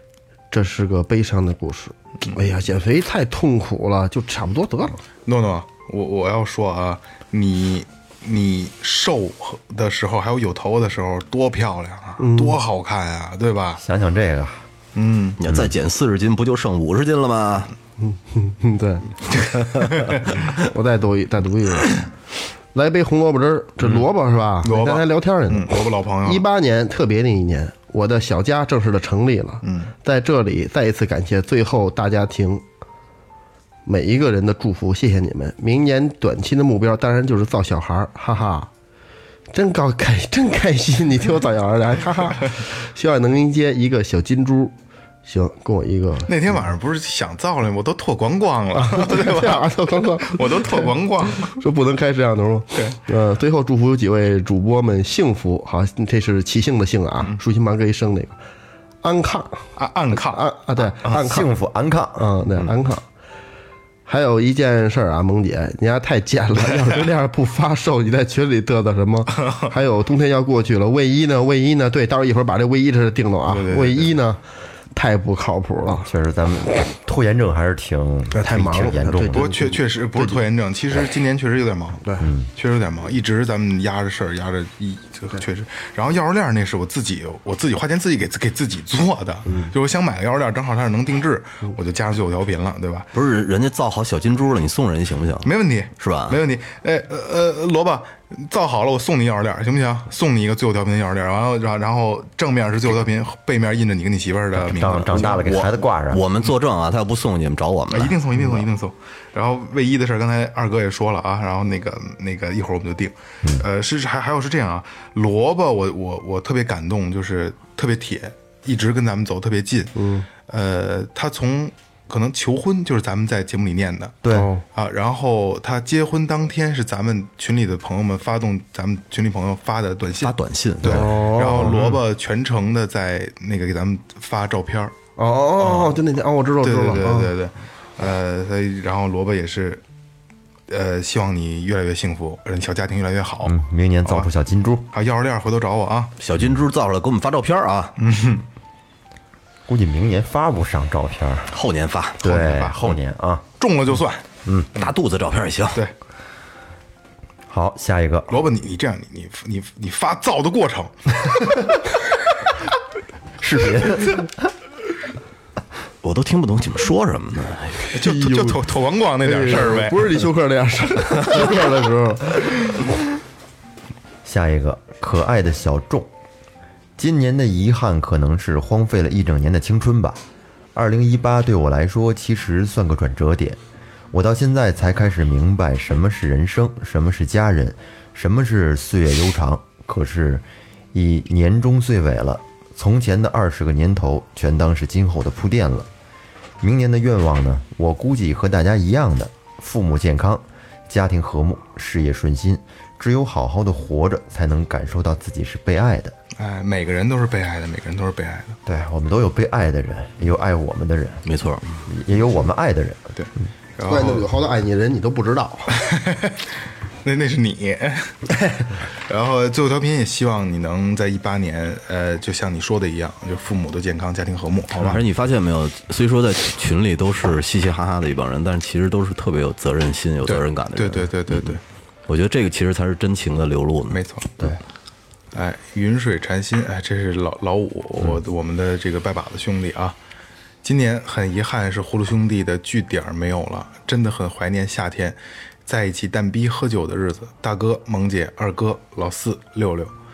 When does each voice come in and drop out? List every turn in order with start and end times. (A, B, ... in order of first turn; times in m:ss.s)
0:00.5-0:05.0 A
0:05.2-0:13.8 B
0:12.2-0:12.6 A
0:13.8-0:14.6 C
0:14.9-0:15.4 B
0:15.4-0:17.7 D
0:15.4-0:15.7 C
0:18.0-0:19.1 A
0:19.4-0:20.3 B
0:20.5-0:22.0 A
0:22.7-0:25.7 A
0:24.6-0:26.4 B
0:26.2-0:32.6 A
0:29.6-0:29.9 B
0:33.8-0:38.7 A
0:39.5-0:44.7 A
0:45.2-0:46.3 A
0:46.3-0:51.6 B
0:48.7-0:58.4 A
0:59.0-1:01.5 A
0:59.8-1:00.5 B
1:01.1-1:02.3 C
1:02.2-1:03.0 A
1:04.0-1:14.4 A
1:09.4-1:09.7 B
1:13.5-1:14.1 B
1:14.9-1:16.1 A
1:16.0-1:19.5 C
1:18.3-1:20.4 A
1:19.3-1:33.1 B
1:22.0-1:22.3 A
1:22.2-1:22.5 C
1:33.1-1:36.4 D
1:35.4-1:45.4 B
1:44.5-1:46.2 C
1:45.1-1:48.2 D
1:47.9-2:04.2 B
2:00.0-2:00.3 A
2:04.2-2:04.5 C
2:04.3-2:04.6 A
2:04.7-2:14.9 B
2:10.2-2:11.2 D
2:10.8-2:11.8 A
2:15.2-2:17.3 A
2:15.6-2:16.0 B
2:16.6-2:19.8 B
2:20.7-2:24.3 B
2:23.4-2:24.9 C
2:24.9-2:26.1 B
2:26.2-2:28.0 D
2:28.0-2:28.4 B
2:29.7-2:31.5 C
2:31.5-2:32.2 D
2:32.2-2:33.0 B
2:32.2-2:33.4 C
2:33.6-2:34.2 B
2:34.7-2:35.8 D
2:37.5-2:38.4 C
2:38.3-2:41.7 B
2:43.4-2:44.3 C
2:46.0-2:47.9 D
2:47.9-2:50.1 B
2:48.0-2:48.6 A
2:49.2-2:52.5 A
2:54.2-2:56.1 C
2:57.0-3:00.2 C
3:00.7-3:03.6 C
3:04.1-3:15.9 C
3:16.6-3:26.1 C
3:26.4-3:28.6 B
3:28.6-3:31.2 C
3:31.2-3:31.9 D
3:31.9-3:33.1 C
3:33.2-3:34.3 B
3:33.9-3:35.8 A
3:35.8-3:36.4 B
3:37.0-3:45.0 B
3:44.8-3:54.0 D
3:50.2-3:51.6 B
3:53.9-3:54.5 B
3:55.3-4:00.0 B
4:00.6-4:09.9 B